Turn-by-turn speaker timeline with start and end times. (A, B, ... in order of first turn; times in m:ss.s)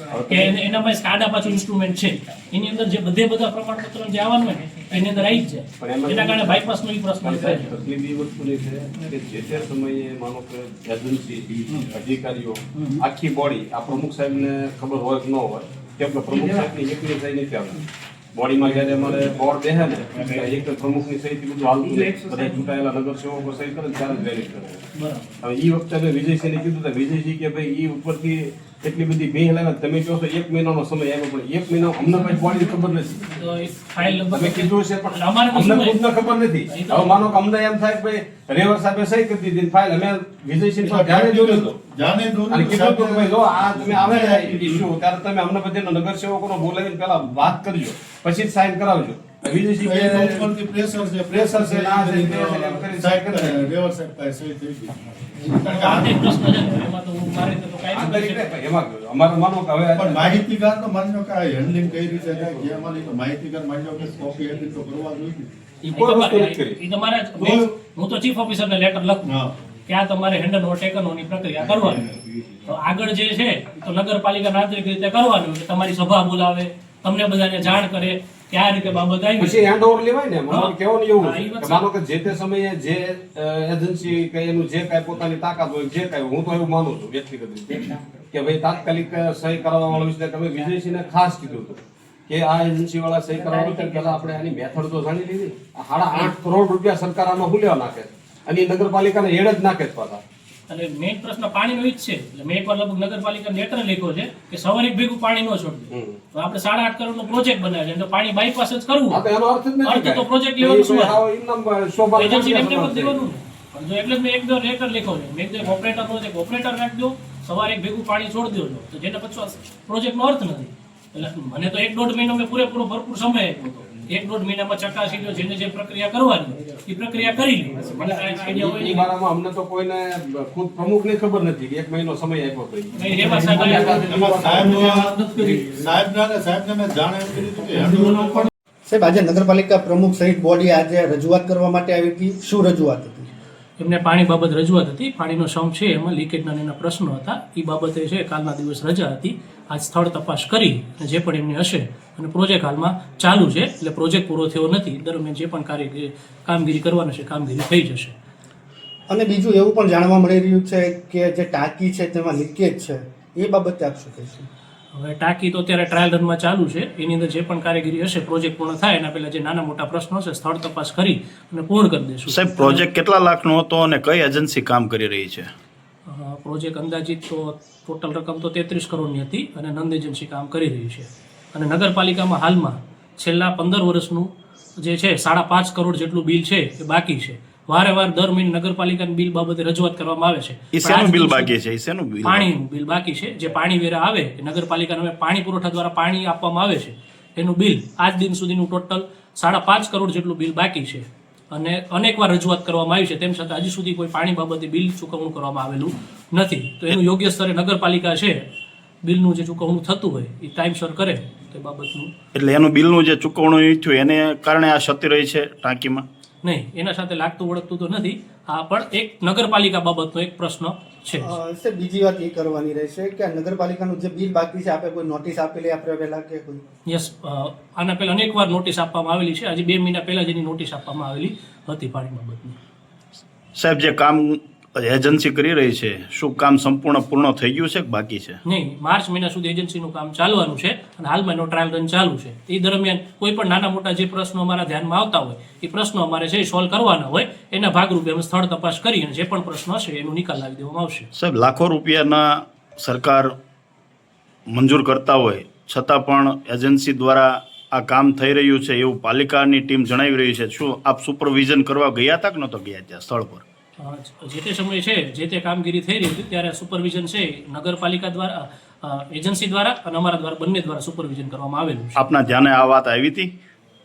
0:00.1-0:00.6 A
0:00.3-0:07.7 B
0:05.8-0:06.7 A
0:07.2-0:24.8 A
0:12.7-0:13.0 B
0:25.0-0:25.3 B
0:25.4-0:33.3 A
0:33.3-0:36.0 B
0:34.3-0:41.8 A
0:36.7-0:37.2 B
0:40.8-0:44.9 C
0:42.5-0:50.5 A
0:49.8-0:56.2 C
0:51.3-0:53.7 A
0:55.7-0:58.5 B
0:57.9-1:00.4 A
0:59.9-1:05.5 C
1:05.8-1:06.8 A
1:05.9-1:09.2 B
1:07.4-1:07.7 C
1:09.3-1:09.6 C
1:09.9-1:12.1 B
1:12.7-1:19.7 B
1:19.4-1:40.2 A
1:20.5-1:21.9 B
1:40.7-1:49.2 B
1:45.9-1:46.2 A
1:49.1-1:53.2 A
1:49.8-1:51.2 B
1:52.2-2:09.1 B
2:08.5-2:15.0 A
2:13.0-2:14.2 B
2:14.0-2:18.5 C
2:15.4-2:15.6 B
2:18.9-2:23.3 D
2:23.8-2:38.2 B
2:39.1-2:44.5 D
2:44.9-2:52.8 B
2:52.3-2:55.5 E
2:56.1-3:11.5 B
3:10.7-3:12.5 E
3:12.2-3:28.4 B
3:29.0-3:32.1 B
3:32.4-3:36.0 E
3:36.4-3:41.3 B
3:41.1-3:46.6 D
3:46.9-3:52.6 B
3:53.6-3:58.4 E
3:58.5-4:11.1 B
4:11.2-4:13.3 E
4:14.5-4:23.4 E
4:23.8-4:32.1 B
4:32.0-4:33.4 E